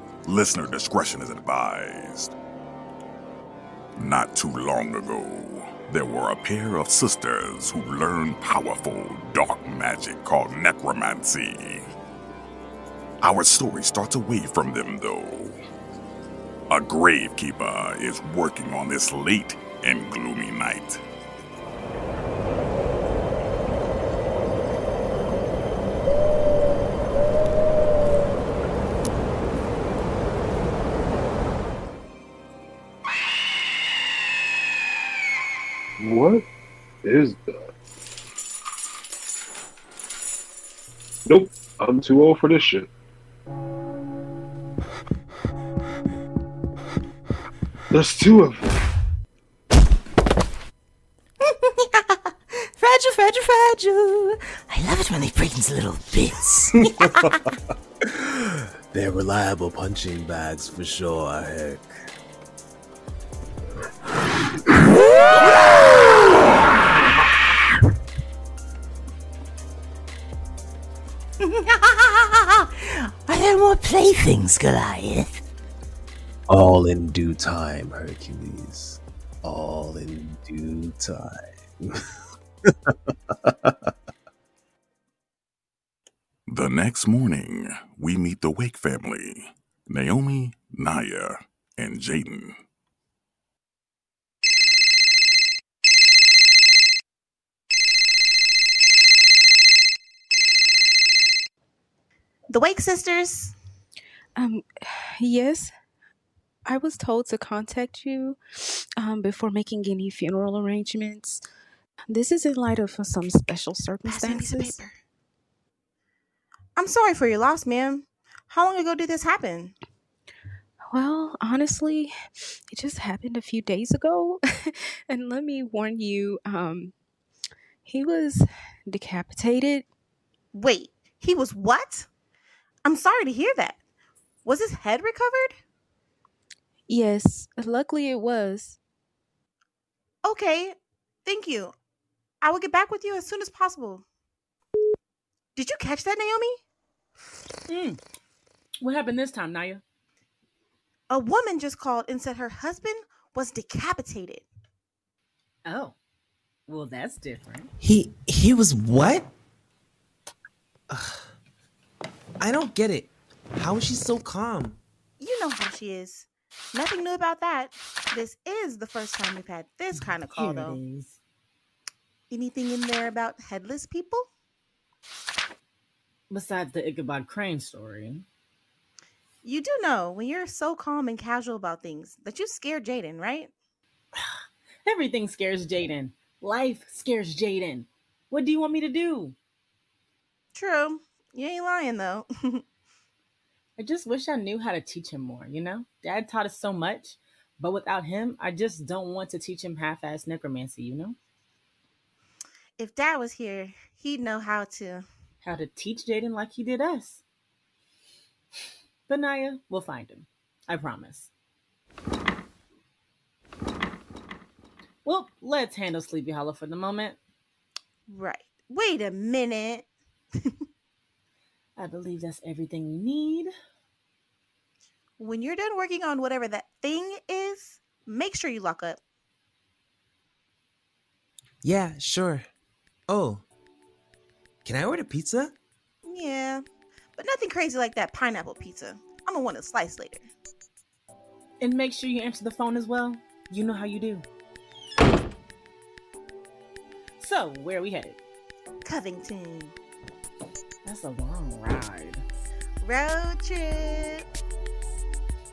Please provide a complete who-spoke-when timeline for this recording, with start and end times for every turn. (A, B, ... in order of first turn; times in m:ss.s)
0:00.3-0:02.3 A
0:04.0-0:11.9 A
0:13.2-0:15.6 A
0:16.7-0:21.0 A
0:36.0-0:36.4 B
0:37.0-0:37.4 B
0:41.3-0:42.9 B
0:47.9-0:48.7 B
0:51.4-0:54.4 C
0:54.7-0:56.8 D
0:58.9-1:01.9 E
1:13.0-1:15.4 D
1:16.5-1:21.9 E
1:26.5-1:32.6 A
1:42.5-1:43.5 C
1:44.4-1:45.7 F
1:46.7-1:51.4 F
1:52.1-1:54.7 F
1:54.0-1:54.9 C
1:56.8-1:59.7 C
2:00.9-2:02.1 F
2:02.7-2:06.9 F
2:07.8-2:09.8 F
2:10.5-2:12.1 C
2:12.8-2:13.8 C
2:14.4-2:15.6 C
2:16.9-2:18.8 F
2:20.2-2:21.7 C
2:22.4-2:24.0 C
2:25.6-2:26.6 C
2:27.7-2:28.0 G
2:28.8-2:29.8 G
2:31.1-2:34.4 C
2:35.6-2:36.0 G
2:36.7-2:37.7 G
2:37.8-2:39.3 H
2:42.4-2:44.8 H
2:45.2-2:50.8 C
2:49.9-2:51.2 G
2:52.3-2:54.3 C
2:56.3-2:58.2 G
2:59.4-3:03.5 C
3:04.8-3:09.4 G
3:10.5-3:12.6 C
3:13.8-3:21.2 G
3:22.8-3:25.0 C
3:25.4-3:27.2 G
3:29.1-3:31.3 G
3:35.0-3:37.2 G
3:38.1-3:39.8 C
3:41.8-3:43.5 G
3:45.2-3:49.0 C
3:51.6-3:52.4 H
3:53.1-3:53.4 H
3:54.7-3:55.5 H
3:56.0-3:56.6 C
3:57.2-4:00.2 C
4:01.6-4:04.2 G
4:07.2-4:08.2 G
4:08.8-4:09.7 C
4:10.8-4:12.2 G
4:12.8-4:14.2 C